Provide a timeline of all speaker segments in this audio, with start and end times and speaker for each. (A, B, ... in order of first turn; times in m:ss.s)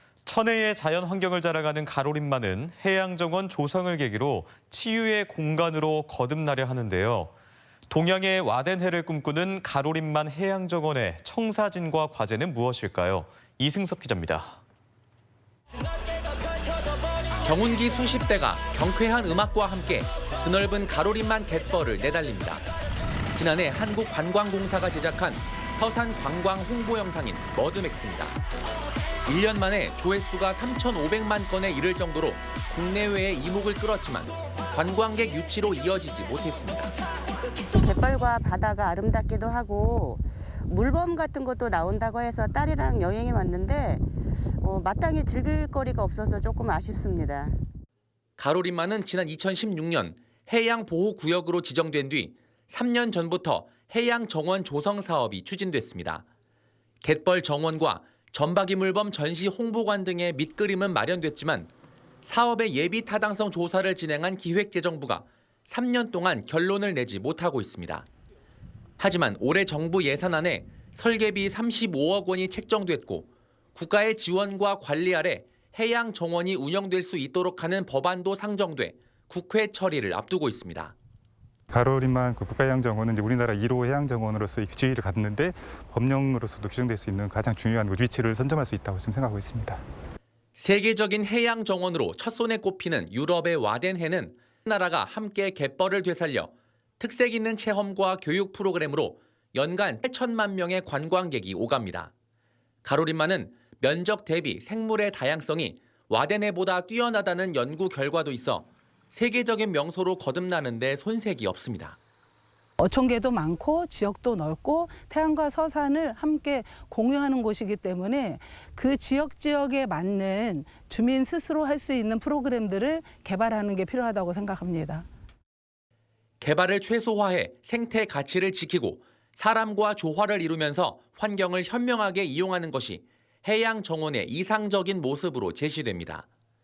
0:00.2-0:07.3 A
0:07.9-0:14.6 A
0:17.4-0:22.6 B
0:23.3-0:28.4 B
0:29.2-0:36.9 B
0:37.7-0:44.0 C
0:44.6-0:47.6 C
0:48.4-0:56.2 B
0:57.0-1:01.7 B
1:02.2-1:08.1 B
1:09.0-1:20.9 B
1:21.7-1:29.8 D
1:30.6-1:42.1 B
1:42.8-1:52.0 B
1:52.8-2:05.0 E
2:06.4-2:16.2 B